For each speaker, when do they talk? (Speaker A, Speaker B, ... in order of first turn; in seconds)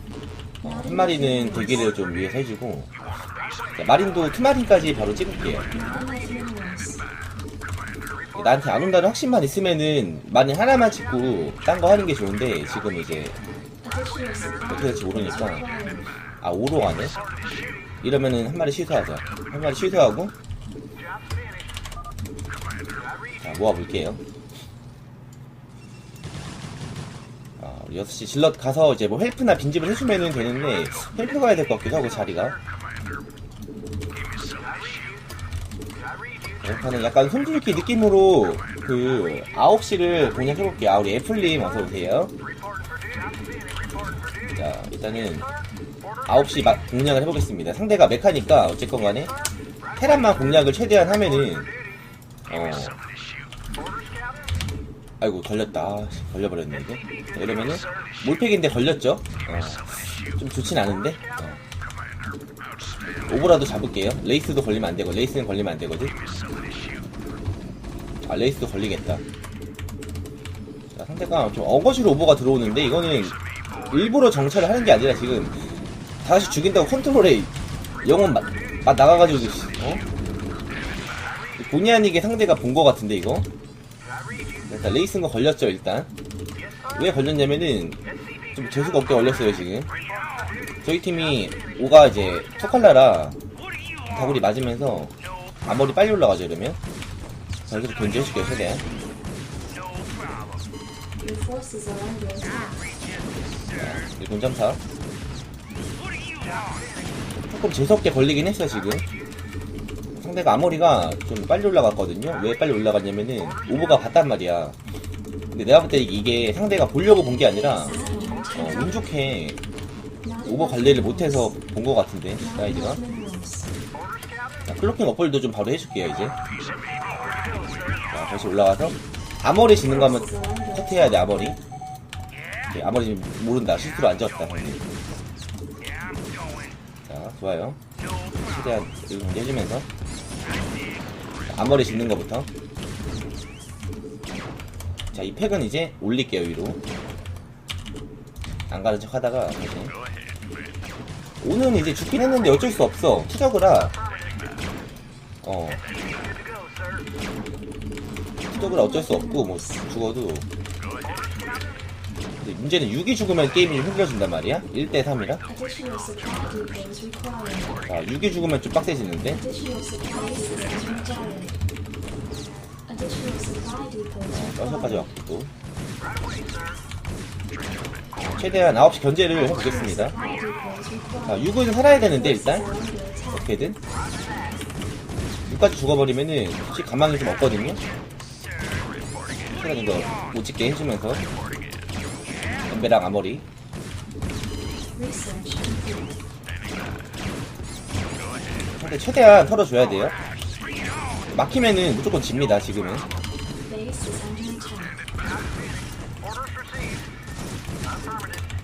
Speaker A: 0.6-1.9, 5.7-7.0, 13.8-16.1, 101.2-102.8, 117.6-119.0, 120.2-121.5, 122.4-123.7, 129.8-131.3, 158.5-159.8, 165.5-167.8, 169.3-171.6, 172.9-175.1, 179.3-183.5, 194.9-196.2, 203.7-205.0
Speaker B: 0.6-2.9, 3.8-5.7, 8.3-13.4, 14.7-15.6, 16.4-17.1, 18.0-20.3, 23.4-24.2, 27.6-32.6, 36.6-42.3, 44.5-45.5, 46.2-49.3, 50.0-51.7, 52.5-53.0, 55.2-61.6, 63.3-66.1, 68.2-69.2, 70.9-73.3, 73.9-75.6, 76.2-77.5, 78.0-80.0, 81.6-83.5, 84.7-86.1, 86.9-88.0, 88.5-89.9, 90.8-93.4, 94.1-95.1, 95.7-96.8, 97.7-98.8, 103.7-104.8, 107.5-109.0, 110.1-114.8, 115.5-118.0, 118.5-119.6, 120.4-123.0, 124.7-126.3, 128.1-131.6, 132.7-134.8, 137.1-137.8, 138.4-139.9, 141.5-142.5, 145.1-146.8, 148.7-149.9, 151.4-153.9, 155.4-155.8, 158.5-160.5, 162.4-165.4, 167.8-169.4, 174.3-175.5, 178.3-180.1, 181.2-182.7, 183.3-183.8, 185.5-187.8, 189.5-191.2, 192.7-193.4, 198.7-200.2, 201.3-203.1